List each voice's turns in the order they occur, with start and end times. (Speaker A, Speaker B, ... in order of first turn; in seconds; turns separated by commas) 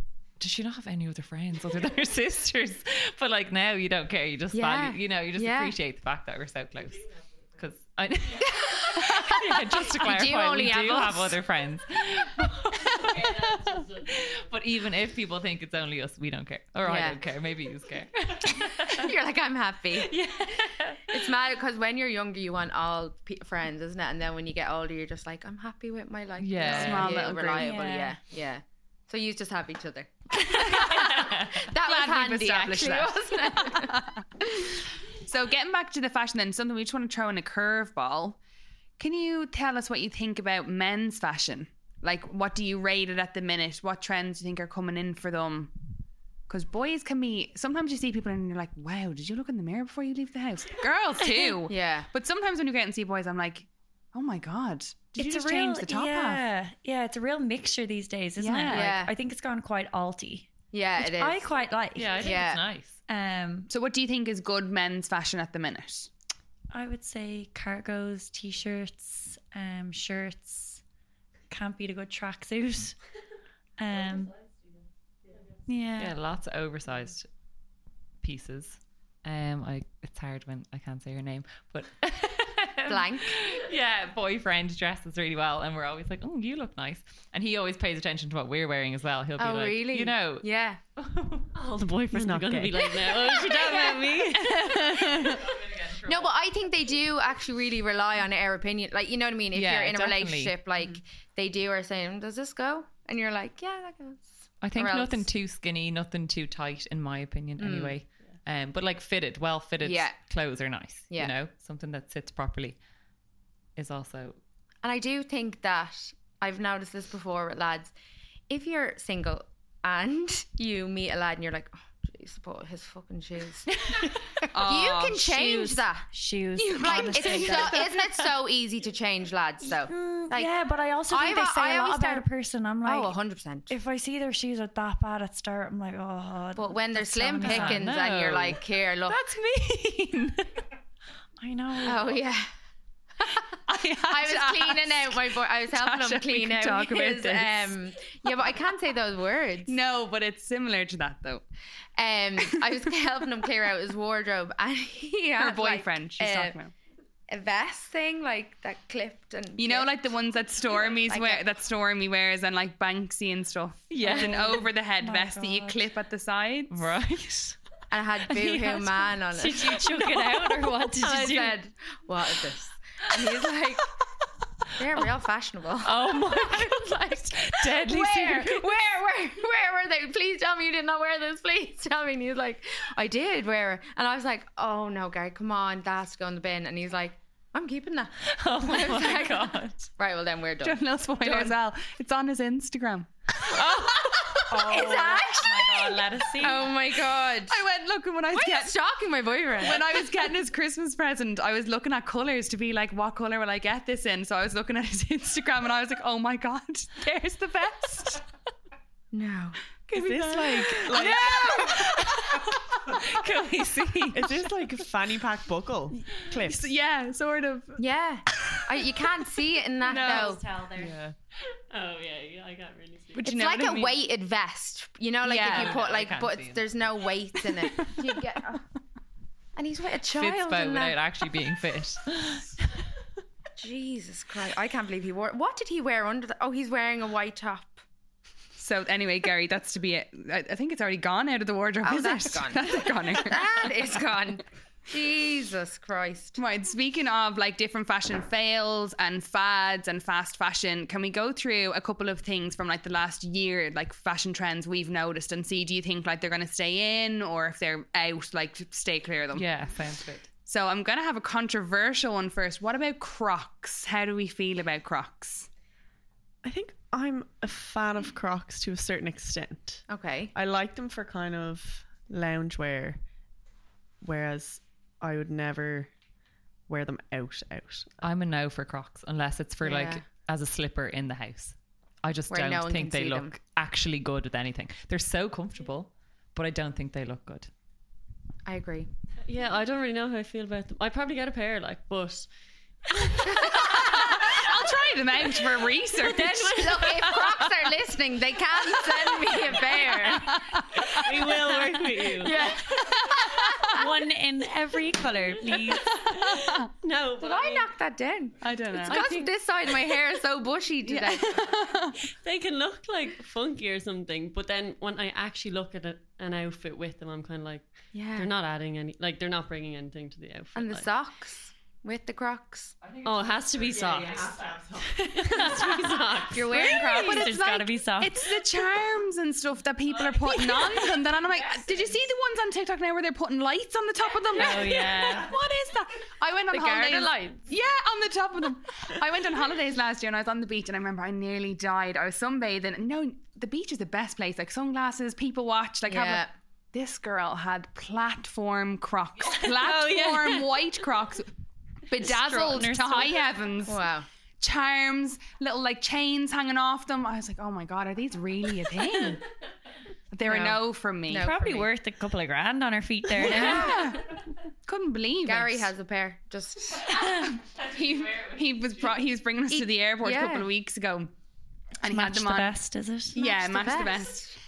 Speaker A: 0.4-19.1, Speaker B: 4.5-5.7, Speaker B: 8.4-11.4, Speaker B: 16.8-17.2, Speaker B: 18.5-20.2, Speaker A: 20.0-21.2, Speaker B: 21.1-34.8, Speaker A: 26.4-27.3, Speaker C: 26.6-27.7, Speaker D: 27.5-28.2, Speaker A: 30.5-32.9, Speaker C: 31.9-34.2, Speaker C: 35.2-38.4, Speaker C: 39.0-45.7, Speaker C: 46.5-56.4, Speaker B: 51.7-52.1, Speaker D: 55.1-62.4, Speaker C: 58.4-58.9, Speaker B: 58.7-59.1, Speaker B: 60.7-61.4, Speaker A: 62.0-63.0, Speaker B: 62.2-62.6, Speaker D: 63.1-63.7, Speaker C: 63.7-66.1, Speaker D: 66.7-70.8, Speaker D: 71.5-73.0, Speaker D: 73.8-74.3, Speaker D: 75.7-76.1, Speaker A: 76.0-77.3, Speaker A: 78.2-91.5, Speaker B: 82.9-83.4, Speaker B: 89.4-90.8, Speaker E: 91.5-94.7, Speaker F: 92.1-93.0, Speaker B: 93.4-94.0, Speaker A: 94.4-96.3, Speaker B: 94.8-105.3, Speaker A: 99.5-100.6, Speaker A: 104.6-112.8, Speaker B: 107.6-107.9, Speaker B: 109.8-110.2, Speaker A: 113.8-114.4, Speaker B: 114.8-117.9, Speaker B: 118.5-123.7, Speaker C: 124.5-125.5, Speaker B: 124.5-130.5, Speaker D: 125.4-127.8, Speaker C: 126.8-127.6, Speaker D: 129.8-133.1, Speaker B: 131.1-132.3, Speaker B: 132.8-133.7, Speaker D: 133.7-137.8, Speaker B: 136.6-139.2, Speaker A: 137.4-140.6, Speaker D: 141.4-142.2, Speaker B: 141.8-142.5, Speaker B: 143.2-149.8, Speaker C: 143.7-147.7, Speaker C: 149.7-151.4, Speaker B: 152.0-156.6, Speaker C: 155.4-156.7, Speaker B: 157.3-159.9, Speaker C: 159.6-166.9, Speaker B: 160.8-161.4, Speaker A: 163.9-164.6, Speaker D: 164.0-165.8, Speaker A: 166.7-167.6, Speaker B: 167.9-170.3, Speaker D: 168.3-171.6, Speaker B: 170.9-173.9, Speaker B: 174.8-191.6, Speaker A: 175.8-178.7, Speaker A: 188.3-189.9, Speaker C: 190.6-193.1, Speaker B: 193.9-197.6, Speaker D: 194.5-196.7, Speaker C: 197.5-198.7, Speaker B: 198.3-200.0, Speaker C: 199.6-208.2, Speaker B: 209.1-209.6, Speaker F: 209.9-211.7, Speaker C: 209.9-212.5, Speaker A: 211.9-214.4, Speaker F: 214.1-216.7, Speaker C: 216.3-217.8, Speaker B: 217.8-220.4, Speaker C: 219.8-220.4, Speaker D: 219.8-220.9, Speaker F: 220.8-221.1, Speaker E: 221.7-223.3, Speaker C: 223.1-224.0, Speaker B: 223.2-228.6, Speaker C: 225.2-225.8, Speaker A: 225.4-226.7, Speaker B: 229.6-231.0, Speaker A: 230.2-232.5, Speaker B: 233.6-237.8, Speaker C: 238.6-243.6, Speaker B: 241.8-246.4, Speaker C: 246.4-259.4, Speaker A: 259.3-260.3, Speaker C: 260.4-265.5, Speaker F: 266.4-273.0, Speaker B: 269.9-270.3, Speaker F: 274.0-275.9, Speaker F: 276.7-278.0, Speaker A: 278.0-287.5, Speaker B: 279.6-280.0, Speaker B: 282.3-283.3, Speaker B: 288.4-288.9, Speaker E: 289.3-292.3, Speaker E: 292.9-293.4, Speaker C: 293.5-297.1, Speaker B: 293.5-293.8, Speaker B: 296.1-300.5, Speaker C: 300.0-301.4, Speaker E: 301.0-302.3, Speaker F: 301.1-302.1, Speaker B: 302.2-302.8, Speaker C: 302.2-303.8, Speaker D: 303.6-306.2, Speaker C: 305.9-306.7, Speaker E: 306.8-307.7, Speaker B: 307.2-311.5, Speaker C: 308.4-309.1, Speaker E: 308.9-309.3, Speaker C: 310.8-312.0, Speaker E: 312.1-320.9, Speaker B: 317.9-318.3, Speaker B: 320.5-322.7, Speaker A: 323.0-323.5, Speaker E: 323.0-324.5, Speaker F: 324.4-324.8, Speaker D: 324.9-328.2, Speaker E: 325.1-326.7, Speaker B: 326.5-327.3, Speaker C: 326.5-351.3, Speaker D: 334.3-335.3, Speaker B: 336.5-337.3, Speaker B: 345.9-346.3, Speaker D: 349.6-350.5, Speaker C: 351.9-353.8, Speaker D: 352.0-353.1, Speaker B: 353.6-354.1, Speaker C: 354.4-359.2, Speaker C: 360.1-361.3, Speaker B: 360.2-361.7, Speaker D: 361.1-363.7, Speaker B: 363.2-364.0, Speaker C: 363.2-365.7, Speaker B: 365.2-367.0, Speaker C: 366.9-371.1, Speaker B: 369.5-370.5, Speaker C: 371.8-372.6, Speaker D: 371.9-373.2, Speaker C: 373.1-374.3, Speaker B: 373.1-374.3